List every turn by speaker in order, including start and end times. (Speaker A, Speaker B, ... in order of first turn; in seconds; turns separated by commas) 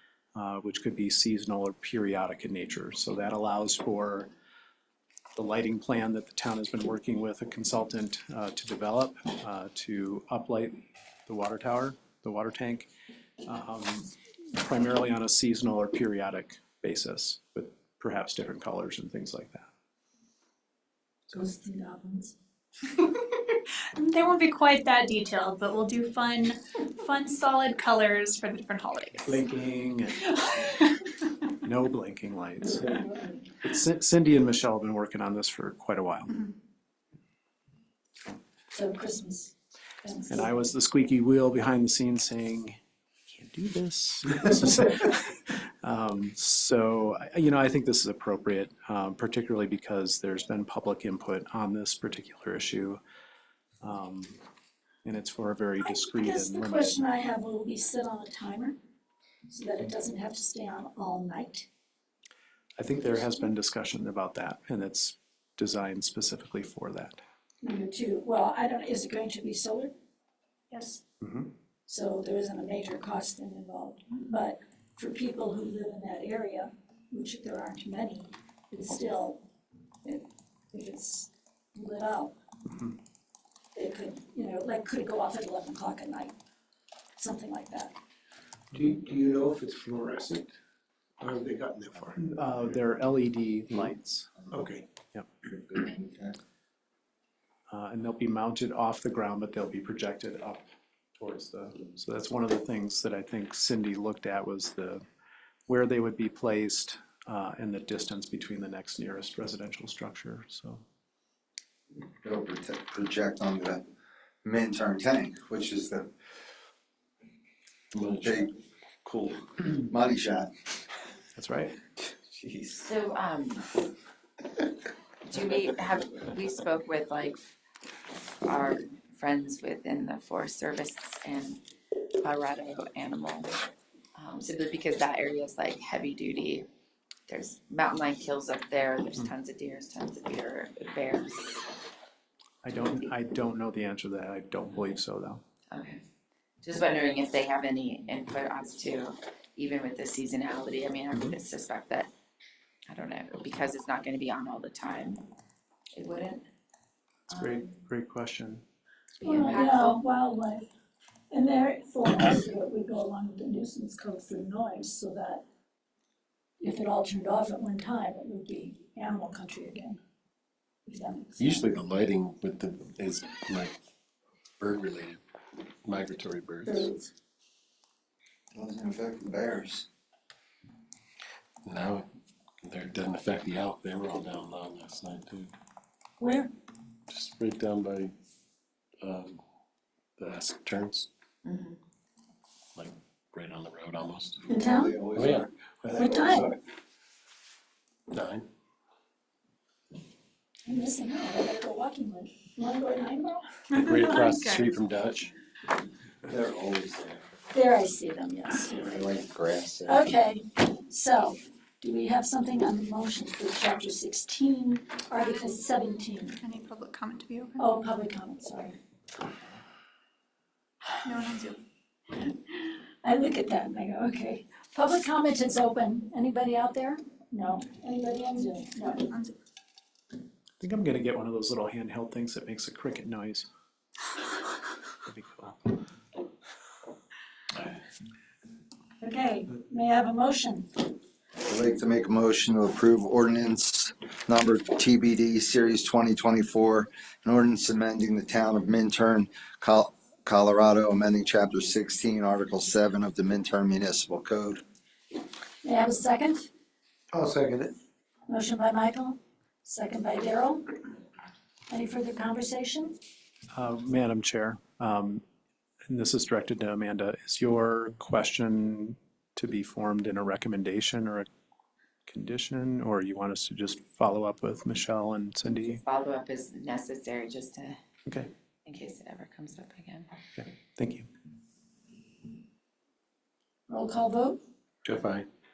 Speaker A: 0.3-4.3, Speaker A: 5.3-12.9, Speaker A: 13.4-19.7, Speaker B: 21.3-22.3, Speaker C: 23.0-29.4, Speaker A: 29.2-30.3, Speaker C: 30.4-31.0, Speaker A: 31.6-33.0, Speaker A: 33.5-36.4, Speaker B: 38.7-40.5, Speaker A: 40.3-53.0, Speaker A: 53.8-54.4, Speaker A: 55.0-57.0, Speaker B: 55.8-58.8, Speaker B: 59.5-61.7, Speaker A: 62.8-67.2, Speaker B: 67.6-69.9, Speaker C: 70.7-71.0, Speaker A: 71.2-71.5, Speaker B: 71.9-79.4, Speaker B: 80.0-82.3, Speaker B: 83.7-86.3, Speaker B: 87.2-87.9, Speaker D: 88.7-90.5, Speaker D: 91.2-92.2, Speaker A: 92.2-94.3, Speaker D: 94.5-94.9, Speaker E: 95.5-96.3, Speaker A: 97.7-105.0, Speaker A: 105.7-110.8, Speaker E: 112.2-113.8, Speaker E: 114.4-116.1, Speaker F: 117.9-118.5, Speaker E: 118.2-118.5, Speaker E: 119.1-120.5, Speaker A: 121.3-121.7, Speaker E: 122.2-122.7, Speaker G: 122.7-123.8, Speaker G: 125.3-127.4, Speaker G: 128.4-131.6, Speaker G: 132.2-133.5, Speaker G: 134.1-136.7, Speaker G: 137.3-141.7, Speaker A: 142.6-145.4, Speaker G: 145.7-146.0, Speaker G: 146.6-152.1, Speaker G: 152.9-155.2, Speaker G: 155.9-156.4, Speaker G: 157.3-157.7, Speaker A: 157.3-158.6, Speaker G: 159.2-160.0, Speaker B: 159.2-160.7, Speaker B: 161.3-165.4, Speaker B: 166.6-170.0, Speaker B: 170.9-171.6, Speaker F: 171.4-173.8, Speaker F: 174.6-175.2, Speaker F: 175.8-176.9, Speaker B: 176.7-177.1, Speaker E: 178.5-179.8, Speaker F: 181.6-182.1, Speaker F: 182.6-185.5, Speaker B: 186.2-186.5, Speaker F: 187.1-188.1, Speaker F: 189.0-189.4, Speaker F: 190.2-191.1, Speaker G: 191.4-191.8, Speaker F: 192.7-194.5, Speaker B: 194.5-195.1, Speaker E: 194.6-195.3, Speaker F: 195.1-196.1, Speaker D: 195.8-196.6, Speaker B: 195.9-196.5, Speaker F: 198.1-198.4, Speaker B: 200.6-204.0, Speaker C: 203.8-204.7, Speaker F: 203.8-205.3, Speaker F: 206.3-207.2, Speaker B: 207.5-209.2, Speaker E: 208.9-209.9, Speaker B: 209.8-216.4, Speaker C: 216.4-217.7, Speaker B: 217.6-219.2, Speaker C: 221.0-221.6, Speaker B: 223.0-229.0, Speaker C: 229.1-229.3, Speaker A: 230.6-233.5, Speaker A: 235.0-235.8, Speaker B: 239.0-240.8, Speaker E: 241.4-254.6, Speaker B: 255.6-256.5, Speaker D: 257.1-257.7, Speaker B: 258.3-260.7, Speaker B: 261.7-262.9, Speaker A: 263.5-265.2, Speaker A: 265.9-271.3, Speaker A: 272.1-275.8, Speaker G: 275.5-277.8, Speaker G: 278.6-280.1, Speaker A: 280.4-281.1, Speaker B: 283.7-284.4, Speaker F: 284.8-285.3